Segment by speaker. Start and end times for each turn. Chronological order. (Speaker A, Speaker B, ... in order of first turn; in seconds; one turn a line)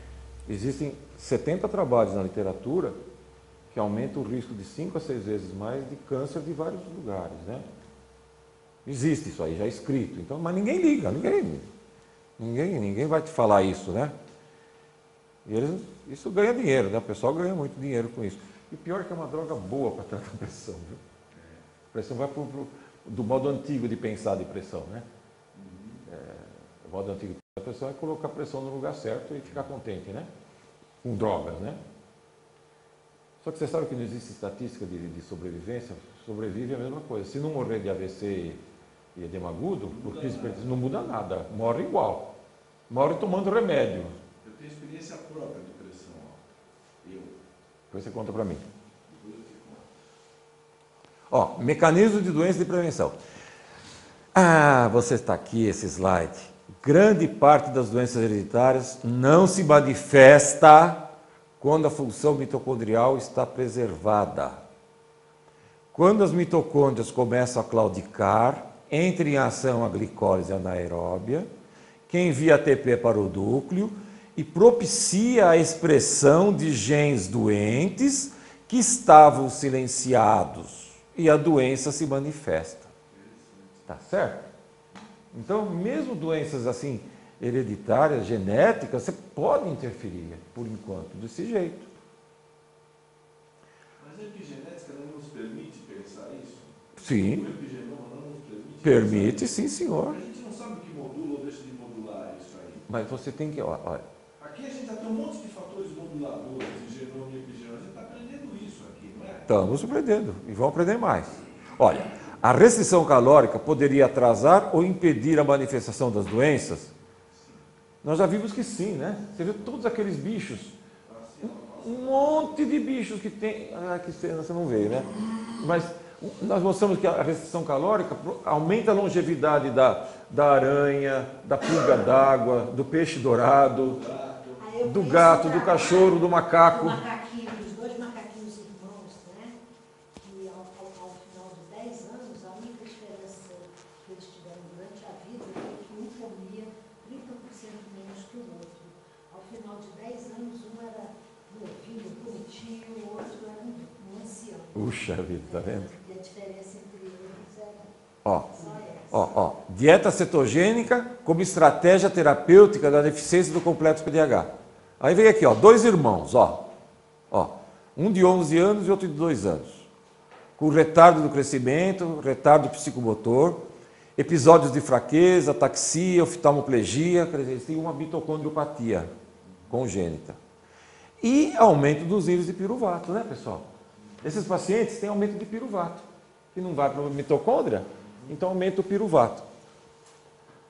Speaker A: 0.5-3.0
Speaker A: 3.7-7.7
Speaker A: 8.8-11.7
Speaker A: 12.4-14.1
Speaker A: 15.4-21.0
Speaker B: 21.3-21.6
Speaker A: 21.9-25.1
Speaker B: 25.5-26.1
Speaker A: 26.1-30.3
Speaker A: 31.0-31.8
Speaker A: 33.4-38.6
Speaker A: 39.1-42.3
Speaker B: 39.9-40.7
Speaker A: 42.9-44.1
Speaker B: 44.4-46.4
Speaker B: 47.0-47.4
Speaker A: 47.9-48.6
Speaker B: 49.1-49.8
Speaker A: 51.3-53.2
Speaker A: 54.3-64.6
Speaker A: 65.9-71.5
Speaker A: 72.1-82.9
Speaker B: 83.1-83.9
Speaker A: 83.9-84.5
Speaker A: 85.3-91.9
Speaker B: 94.0-102.8
Speaker A: 97.0-97.5
Speaker A: 98.8-100.2
Speaker A: 102.9-104.0
Speaker B: 104.4-109.5
Speaker A: 109.5-116.9
Speaker B: 117.3-117.6
Speaker A: 118.0-120.8
Speaker B: 121.0-122.7
Speaker A: 121.4-134.0
Speaker B: 133.9-134.7
Speaker C: 134.6-139.6
Speaker A: 134.8-137.0
Speaker C: 140.2-154.8
Speaker A: 154.7-155.9
Speaker C: 155.4-157.9
Speaker A: 158.2-166.7
Speaker C: 158.5-159.3
Speaker A: 167.3-169.9
Speaker A: 170.6-179.1
Speaker A: 179.7-180.4
Speaker A: 181.2-183.7
Speaker A: 184.2-189.4